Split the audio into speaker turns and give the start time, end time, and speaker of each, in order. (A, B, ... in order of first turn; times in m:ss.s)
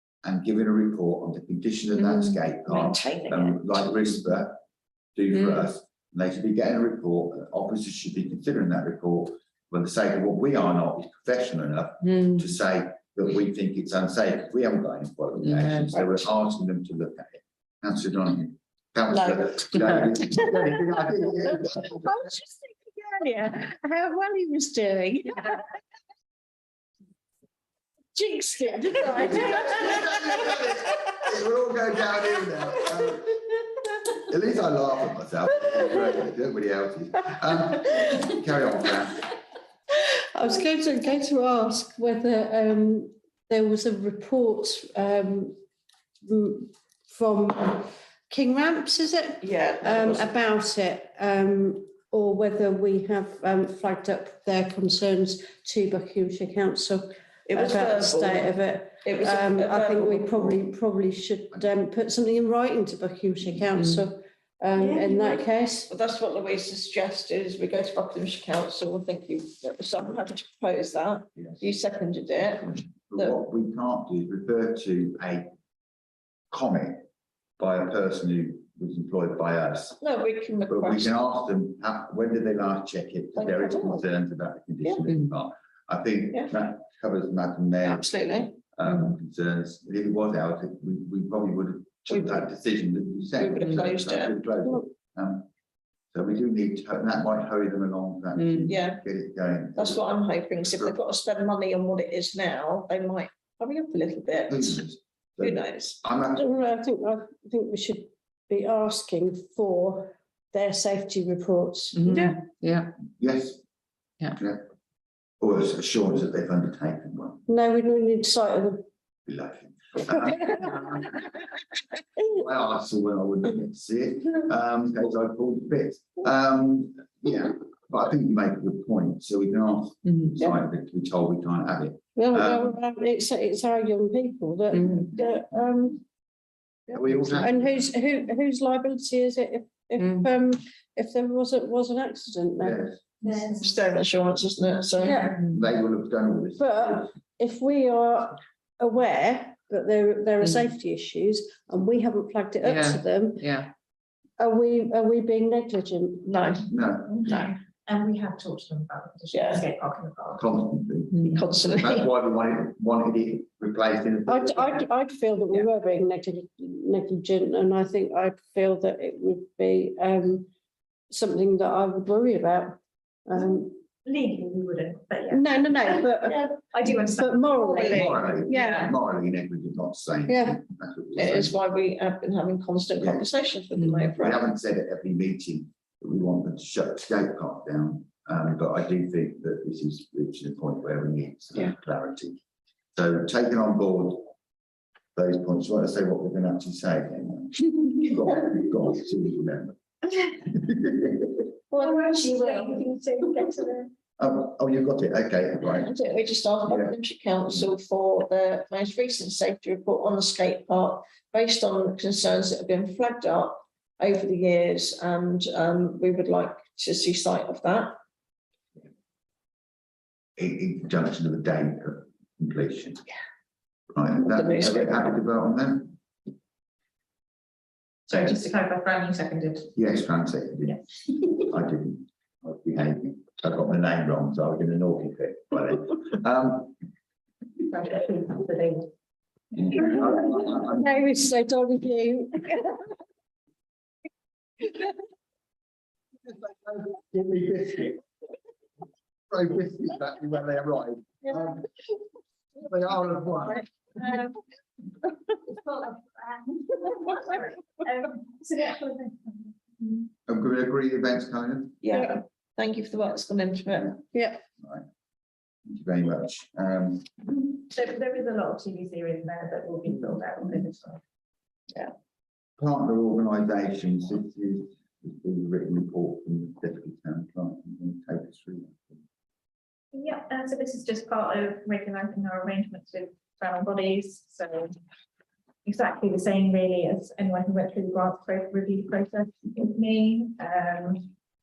0:00.2-0:04.6 A
0:02.0-0:02.4 B
0:02.7-0:03.6 C
0:05.2-0:22.1 A
0:05.3-0:05.7 B
0:12.0-0:12.4 B
0:15.4-0:16.0 B
0:19.1-0:19.6 C
0:21.9-0:25.6 D
0:28.2-0:30.9 D
0:29.0-0:29.4 C
0:29.3-0:33.3 A
0:34.2-0:39.3 A
0:40.3-0:45.5 D
0:46.2-1:05.9 D
0:49.4-0:50.3 C
0:57.5-1:00.6 C
1:03.8-1:04.0 B
1:04.8-1:05.4 E
1:05.9-1:13.4 C
1:13.1-1:15.5 A
1:16.5-1:17.0 A
1:17.6-1:20.0 A
1:20.0-1:21.2 C
1:20.7-1:35.5 A
1:23.4-1:24.0 C
1:27.8-1:28.6 C
1:32.1-1:32.4 C
1:33.4-1:34.4 C
1:36.1-1:40.0 A
1:38.4-1:38.7 B
1:38.7-1:39.0 C
1:39.8-1:44.8 C
1:40.6-1:41.0 A
1:44.5-1:46.5 A
1:45.4-1:46.0 C
1:46.3-1:52.4 D
1:51.9-1:53.0 B
1:53.1-1:53.6 A
1:54.4-1:54.6 A
1:55.4-1:57.4 A
1:57.5-1:58.8 D
1:59.3-2:01.1 A
2:00.1-2:00.8 D
2:02.3-2:12.8 A
2:10.0-2:10.3 B
2:12.2-2:16.0 D
2:14.7-2:15.1 B
2:16.9-2:17.9 A
2:17.4-2:22.8 D
2:20.0-2:20.3 B
2:22.6-2:23.0 A
2:23.2-2:23.7 E
2:23.4-2:25.3 C
2:25.0-2:25.3 D
2:25.4-2:27.1 A
2:26.6-2:33.6 D
2:32.6-2:33.7 B
2:34.4-2:36.3 D
2:36.2-2:36.7 C
2:36.7-2:37.3 A
2:37.1-2:40.5 E
2:37.2-2:37.5 C
2:39.3-2:39.6 C
2:40.4-2:44.9 A
2:41.1-2:41.4 B
2:41.3-2:42.1 C
2:44.3-2:50.5 D
2:51.1-2:53.8 D
2:54.0-2:56.0 E
2:55.3-2:58.8 D
2:56.3-2:56.5 C
2:56.7-2:58.0 E
2:57.6-2:58.9 C
2:57.9-3:01.6 A
2:58.5-2:58.9 E
3:00.3-3:00.6 D
3:01.2-3:04.4 C
3:03.0-3:03.3 A
3:03.8-3:04.1 B
3:04.2-3:12.4 A
3:12.9-3:14.3 A
3:15.2-3:19.8 A
3:20.3-3:21.4 A
3:21.7-3:22.8 C
3:21.7-3:23.9 E
3:24.2-3:25.9 A
3:25.6-3:38.0 C
3:26.7-3:26.9 A
3:40.4-3:43.0 A
3:43.9-3:46.0 A
3:44.2-3:45.1 C
3:48.1-3:49.7 E
3:49.8-3:50.8 A
3:51.4-3:56.8 A
3:57.6-3:58.9 E
3:59.6-4:00.9 A
3:59.8-4:00.1 E
3:59.9-4:02.9 D
4:06.2-4:08.0 A
4:09.3-4:11.7 A
4:12.6-4:13.6 A
4:15.6-4:20.1 E
4:20.3-4:21.8 A
4:21.8-4:24.0 C
4:24.1-4:24.4 D
4:25.6-4:27.1 A
4:27.5-4:31.0 E
4:32.6-4:39.0 A
4:39.9-4:44.7 E
4:45.6-4:51.1 E